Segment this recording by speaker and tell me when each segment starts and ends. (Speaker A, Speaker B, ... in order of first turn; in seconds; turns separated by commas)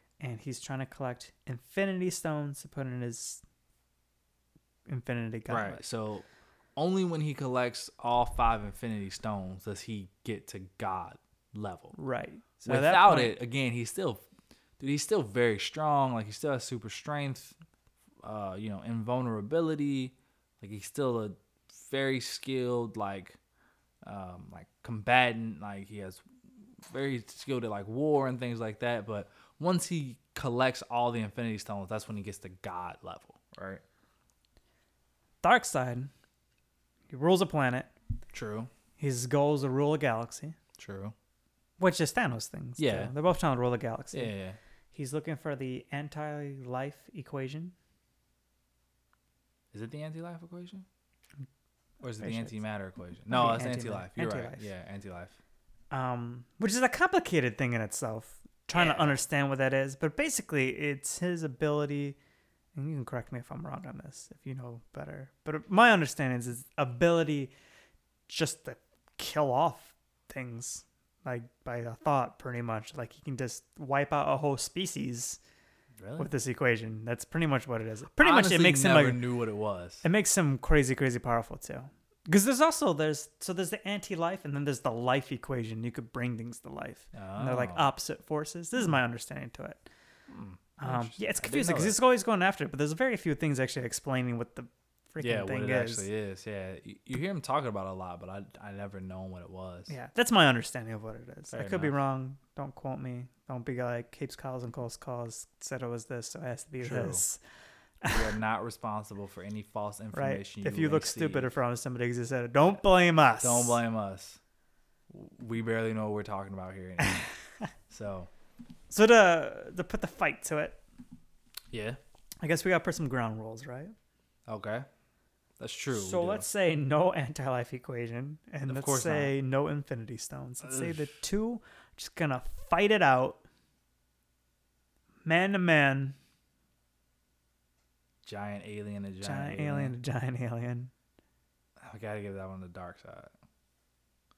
Speaker A: 0.2-3.4, Speaker A: 4.9-5.8, Speaker B: 5.5-11.9, Speaker A: 11.9-13.3, Speaker B: 12.6-14.3, Speaker B: 14.8-17.6, Speaker B: 18.2-23.4, Speaker B: 24.1-26.2, Speaker B: 26.9-33.8, Speaker A: 35.4-36.1, Speaker A: 37.1-37.9, Speaker B: 38.3-38.7, Speaker A: 39.0-40.6, Speaker B: 40.8-41.1, Speaker A: 41.8-44.3, Speaker B: 42.8-43.1, Speaker B: 44.1-44.6, Speaker A: 44.9-47.7, Speaker B: 49.7-50.9, Speaker B: 52.0-55.4, Speaker A: 52.2-52.6, Speaker A: 53.3-54.7, Speaker A: 55.9-62.2, Speaker B: 58.7-59.2, Speaker A: 62.7-67.5, Speaker A: 68.3-75.4, Speaker B: 76.0-76.3, Speaker A: 76.2-79.2, Speaker B: 78.2-80.0, Speaker A: 80.0-89.8, Speaker B: 87.1-87.9, Speaker B: 90.3-92.0, Speaker A: 90.8-96.1, Speaker B: 95.2-99.9, Speaker A: 99.9-107.4, Speaker B: 101.5-102.0, Speaker B: 106.8-107.2, Speaker A: 108.0-108.4, Speaker B: 108.1-111.5, Speaker A: 110.1-113.8, Speaker B: 113.4-114.4, Speaker B: 115.1-117.3, Speaker A: 117.0-117.7, Speaker B: 117.9-118.3, Speaker A: 118.9-120.8, Speaker B: 121.7-122.0, Speaker A: 122.4-123.9, Speaker B: 124.5-124.9, Speaker B: 125.6-126.5, Speaker A: 125.9-133.4, Speaker B: 128.7-129.3, Speaker B: 130.6-131.2, Speaker A: 135.2-136.2, Speaker B: 138.2-139.9, Speaker A: 139.2-140.9, Speaker B: 141.8-143.3